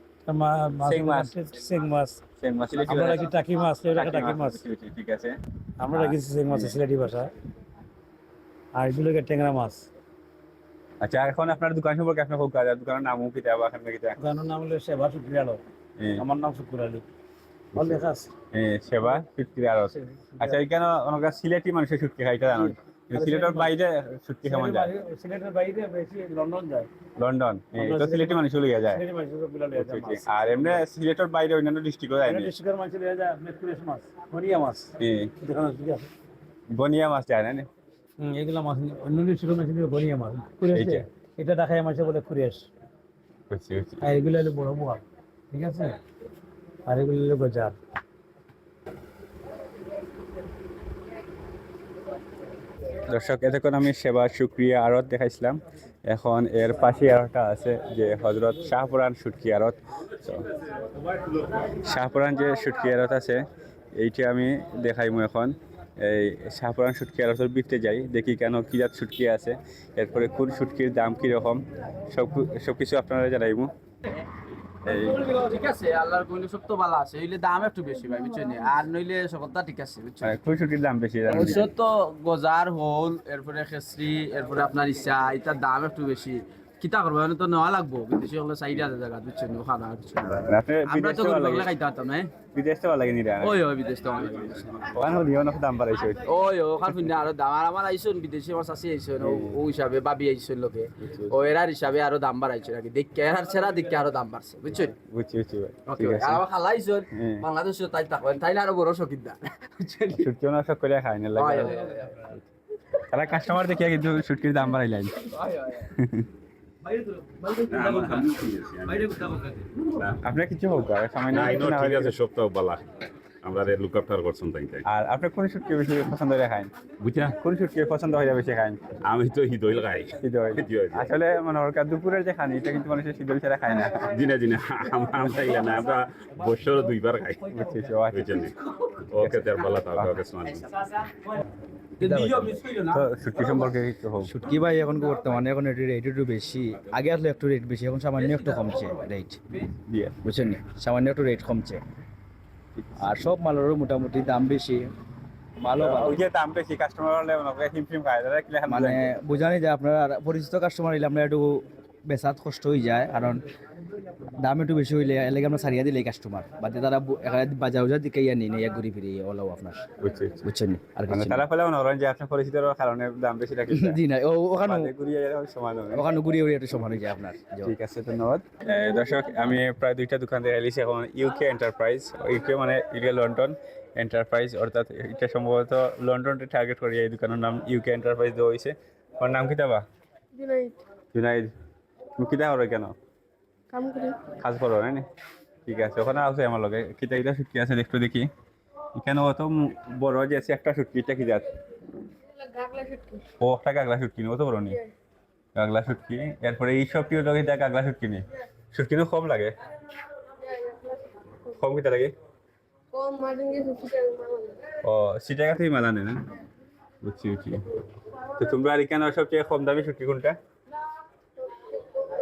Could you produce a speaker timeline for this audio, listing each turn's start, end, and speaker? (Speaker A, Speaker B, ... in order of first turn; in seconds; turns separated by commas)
Speaker A: 0.3-2.2, Speaker B: 0.8-1.4, Speaker B: 2.4-3.4, Speaker A: 2.8-4.6, Speaker B: 3.9-5.4, Speaker A: 5.8-7.3, Speaker B: 5.9-6.8, Speaker A: 8.7-9.9, Speaker B: 11.0-14.2, Speaker A: 14.2-15.6, Speaker B: 16.0-16.2, Speaker A: 16.2-17.0, Speaker B: 17.8-18.0, Speaker A: 17.8-18.3, Speaker B: 18.5-24.9, Speaker A: 19.9-20.6, Speaker A: 22.5-23.7, Speaker A: 24.4-26.9, Speaker B: 27.2-29.0, Speaker A: 27.8-30.8, Speaker B: 29.7-32.5, Speaker A: 32.3-36.1, Speaker B: 35.0-35.3, Speaker B: 36.7-37.7, Speaker A: 38.2-42.7, Speaker B: 40.7-41.0, Speaker B: 43.5-44.0, Speaker A: 44.0-46.0, Speaker A: 46.9-47.8, Speaker B: 53.1-60.5, Speaker B: 61.8-63.4, Speaker B: 64.0-73.7, Speaker B: 74.8-75.3, Speaker C: 75.1-80.3, Speaker B: 80.2-81.7, Speaker C: 81.3-92.3, Speaker B: 90.5-91.7, Speaker B: 92.5-93.6, Speaker C: 93.4-94.9, Speaker B: 94.8-96.2, Speaker C: 96.2-105.0, Speaker B: 99.2-99.6, Speaker B: 101.0-101.4, Speaker B: 105.1-106.4, Speaker C: 105.9-110.2, Speaker B: 107.1-107.5, Speaker B: 110.2-111.8, Speaker C: 111.4-112.3, Speaker B: 113.1-115.3, Speaker C: 115.4-115.8, Speaker B: 115.9-116.3, Speaker D: 117.6-120.2, Speaker B: 120.2-122.2, Speaker D: 121.3-122.9, Speaker D: 123.4-124.8, Speaker B: 124.9-126.7, Speaker D: 127.0-127.4, Speaker B: 127.3-128.8, Speaker D: 129.1-131.2, Speaker B: 130.2-134.1, Speaker D: 134.0-137.5, Speaker B: 137.5-138.4, Speaker D: 138.1-138.6, Speaker D: 139.1-140.7, Speaker B: 139.2-140.1, Speaker E: 142.0-142.7, Speaker B: 142.8-144.3, Speaker E: 144.2-149.4, Speaker B: 149.9-150.2, Speaker E: 150.2-151.8, Speaker E: 153.0-154.9, Speaker E: 155.6-156.2, Speaker B: 155.8-159.0, Speaker E: 158.7-163.4, Speaker E: 164.4-169.8, Speaker B: 170.0-170.4, Speaker E: 170.4-171.4, Speaker B: 171.1-174.0, Speaker E: 173.7-174.9, Speaker B: 174.7-176.1, Speaker E: 175.9-177.7, Speaker B: 177.6-189.8, Speaker F: 190.3-190.8, Speaker B: 191.1-191.5, Speaker B: 192.2-192.9, Speaker F: 193.7-194.2, Speaker B: 194.4-195.0, Speaker B: 195.7-198.3, Speaker B: 198.9-201.5, Speaker F: 202.3-203.2, Speaker B: 203.4-204.8, Speaker B: 205.6-209.5, Speaker F: 210.4-211.0, Speaker B: 211.6-212.1, Speaker F: 212.9-214.6, Speaker B: 214.8-216.2, Speaker B: 217.0-217.6, Speaker B: 218.4-220.3